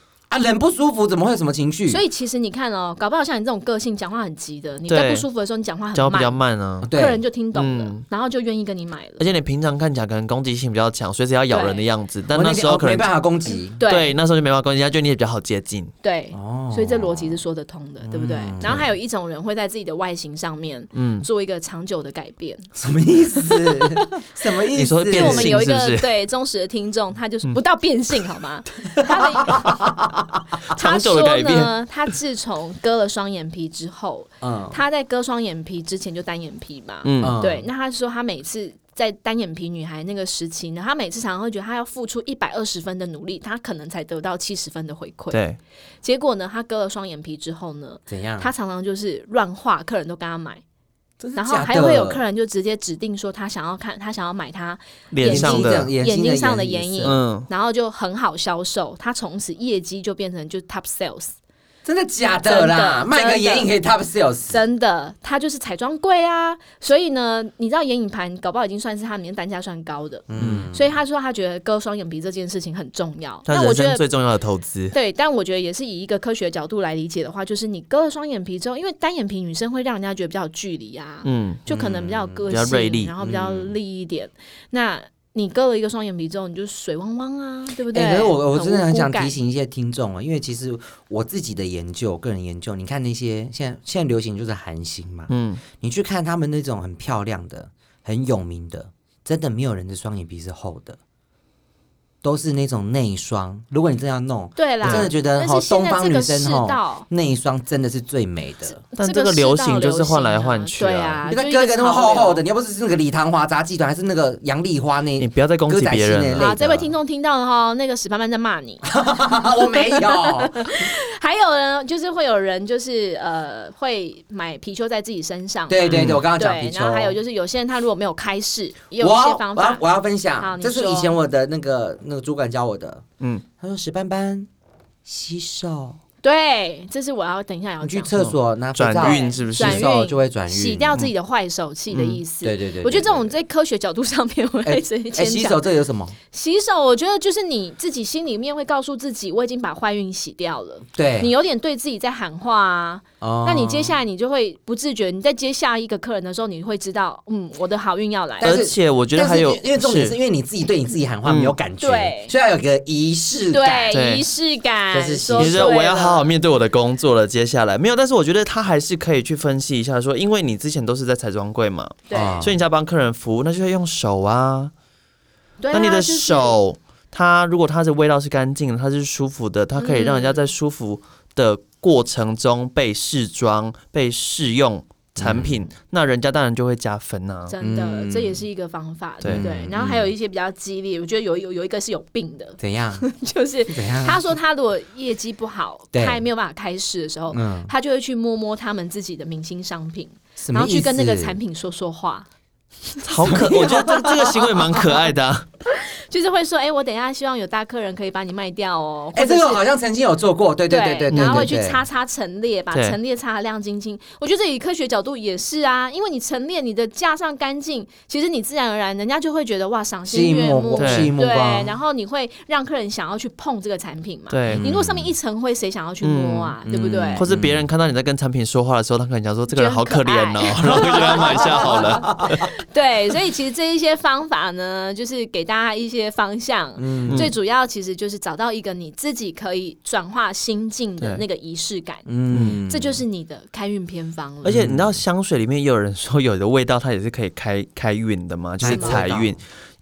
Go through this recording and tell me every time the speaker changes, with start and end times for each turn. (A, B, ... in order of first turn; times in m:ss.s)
0:00.3-0:02.0 A
0:01.9-0:06.4 B
0:04.9-0:05.3 C
0:05.9-0:06.9 C
0:06.8-0:07.2 A
0:06.9-0:09.2 B
0:07.5-0:08.0 C
0:09.2-0:13.1 C
0:11.5-0:11.8 B
0:12.3-0:13.8 A
0:13.8-0:14.1 B
0:13.8-0:15.9 C
0:16.0-0:22.7 B
0:16.3-0:17.4 A
0:18.0-0:18.8 A
0:20.9-0:21.3 C
0:22.8-0:25.6 A
0:23.4-0:24.2 B
0:24.8-0:26.1 C
0:25.1-0:29.8 B
0:29.0-0:30.4 A
0:30.7-0:31.7 C
0:30.7-0:45.4 B
0:34.4-0:34.8 A
0:37.0-0:37.4 C
0:37.2-0:37.7 A
0:45.3-0:45.6 C
0:46.0-0:50.6 B
0:48.1-0:48.5 A
0:51.2-0:52.2 A
0:51.4-1:01.4 B
0:55.1-0:55.9 C
0:55.2-0:57.2 A
0:57.0-0:57.5 C
1:01.8-1:04.6 A
1:02.5-1:03.7 B
1:04.5-1:14.0 B
1:10.3-1:10.9 A
1:10.4-1:10.7 C
1:13.5-1:14.9 C
1:14.9-1:29.4 B
1:21.2-1:21.6 C
1:21.7-1:22.4 A
1:22.5-1:23.1 C
1:23.2-1:23.8 A
1:27.9-1:41.0 A
1:35.3-1:35.6 C
1:42.2-1:48.8 A
1:44.6-1:47.1 B
1:44.8-1:45.1 C
1:48.9-1:51.2 C
1:49.0-1:52.4 B
1:51.3-1:56.9 A
1:55.2-1:56.6 C
1:56.4-1:58.9 B
1:58.8-2:00.9 A
1:59.7-2:09.8 B
2:05.7-2:07.2 A
2:05.9-2:06.2 C
2:09.0-2:13.0 A
2:10.4-2:11.2 B
2:13.6-2:14.5 A
2:15.0-2:16.0 A
2:16.2-2:18.1 B
2:17.8-2:21.0 A
2:18.1-2:19.9 C
2:19.0-2:25.7 B
2:21.9-2:22.2 C
2:22.4-2:23.3 A
2:24.6-2:26.2 A
2:26.3-2:38.6 B
2:30.9-2:31.3 A
2:33.2-2:34.0 A
2:38.4-2:40.2 C
2:38.4-2:44.0 A
2:41.2-2:41.6 C
2:41.8-2:42.3 B
2:43.5-2:46.3 B
2:43.9-2:44.3 C
2:44.9-2:45.8 A
2:45.4-2:54.7 C
2:52.1-2:52.5 B
2:52.1-2:52.6 A
2:55.6-2:56.5 B
2:55.7-3:07.6 C
2:59.8-3:00.5 B
3:05.2-3:05.6 A
3:07.5-3:22.3 B
3:07.6-3:08.4 A
3:09.2-3:10.1 A
3:12.6-3:13.0 A
3:13.7-3:14.2 A
3:15.9-3:16.2 A
3:17.3-3:17.7 A
3:20.4-3:21.4 A
3:23.0-3:25.5 C
3:23.2-3:25.0 A
3:25.7-3:29.6 B
3:29.1-3:31.8 A
3:30.7-3:47.3 B
3:31.1-3:31.5 C
3:32.7-3:33.0 C
3:40.1-3:41.8 A
3:40.8-3:41.1 C
3:44.3-3:44.7 C
3:44.5-3:45.1 A
3:46.0-3:46.6 C
3:46.6-3:47.7 A
3:47.2-3:52.5 C
3:49.5-4:02.1 B
3:50.7-3:52.5 A
3:56.8-3:57.3 A
3:57.1-3:57.3 C
4:02.1-4:03.0 A
4:02.3-4:02.6 C
4:02.7-4:04.7 B
4:04.4-4:09.4 C
4:04.5-4:05.0 A
4:08.6-4:09.4 A
4:08.7-4:09.0 B